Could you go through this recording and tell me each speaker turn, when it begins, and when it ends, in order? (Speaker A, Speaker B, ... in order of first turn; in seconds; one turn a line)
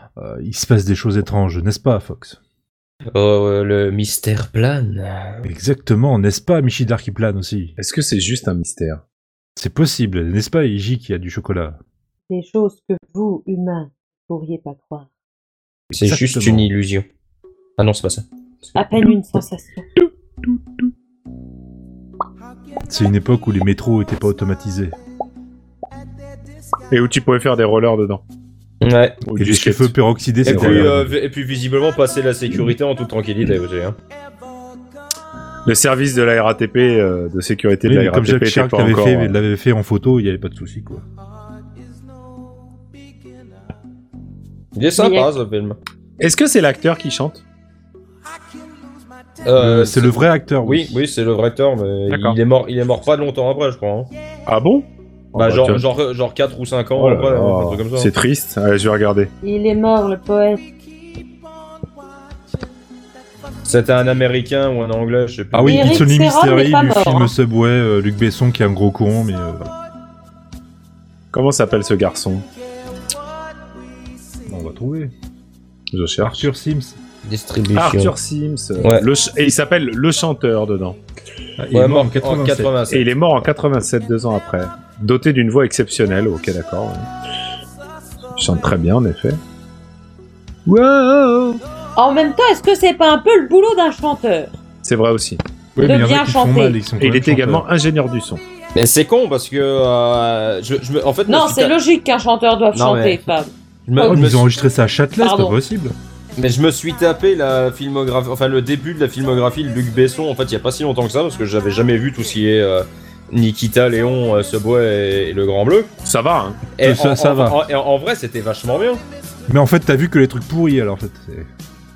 Speaker A: 0.2-2.4
Speaker B: 3.1-5.5
Speaker A: 5.4-7.7
Speaker C: 7.8-9.0
Speaker A: 9.6-11.8
Speaker D: 12.3-15.1
Speaker A: 15.9-16.7
Speaker B: 15.9-17.1
Speaker B: 17.8-18.2
Speaker D: 18.8-19.9
Speaker A: 22.9-24.9
Speaker C: 26.9-28.2
Speaker B: 28.8-29.2
Speaker C: 29.3-30.9
Speaker A: 29.3-31.1
Speaker B: 30.4-34.0
Speaker C: 35.7-39.4
Speaker A: 37.9-41.0
Speaker B: 44.8-45.8
Speaker D: 45.0-45.3
Speaker C: 46.2-47.4
Speaker B: 49.5-54.1
Speaker A: 49.6-51.0
Speaker C: 52.1-52.4
Speaker C: 54.5-55.9
Speaker B: 55.4-58.1
Speaker C: 57.0-59.3
Speaker D: 59.4-60.6
Speaker B: 63.7-66.1
Speaker A: 65.5-69.7
Speaker D: 65.6-67.3
Speaker C: 71.3-72.5
Speaker A: 74.5-75.1
Speaker C: 75.9-76.5
Speaker A: 76.2-77.0
Speaker B: 77.2-78.2
Speaker C: 77.8-81.0
Speaker B: 78.8-79.1
Speaker A: 81.6-82.7
Speaker B: 81.7-83.1
Speaker C: 82.9-87.1
Speaker C: 88.4-89.4
Speaker C: 90.7-91.6
Speaker D: 92.0-94.5
Speaker C: 94.8-95.4
Speaker A: 95.8-97.7
Speaker D: 95.8-96.8
Speaker C: 97.0-98.4
Speaker B: 98.8-101.8
Speaker D: 101.3-104.2
Speaker B: 102.7-103.2
Speaker B: 103.9-104.5
Speaker A: 104.0-105.9
Speaker D: 105.2-105.5
Speaker B: 106.4-115.9
Speaker C: 116.0-116.6
Speaker B: 116.8-119.0
Speaker A: 116.8-117.6
Speaker A: 119.5-121.5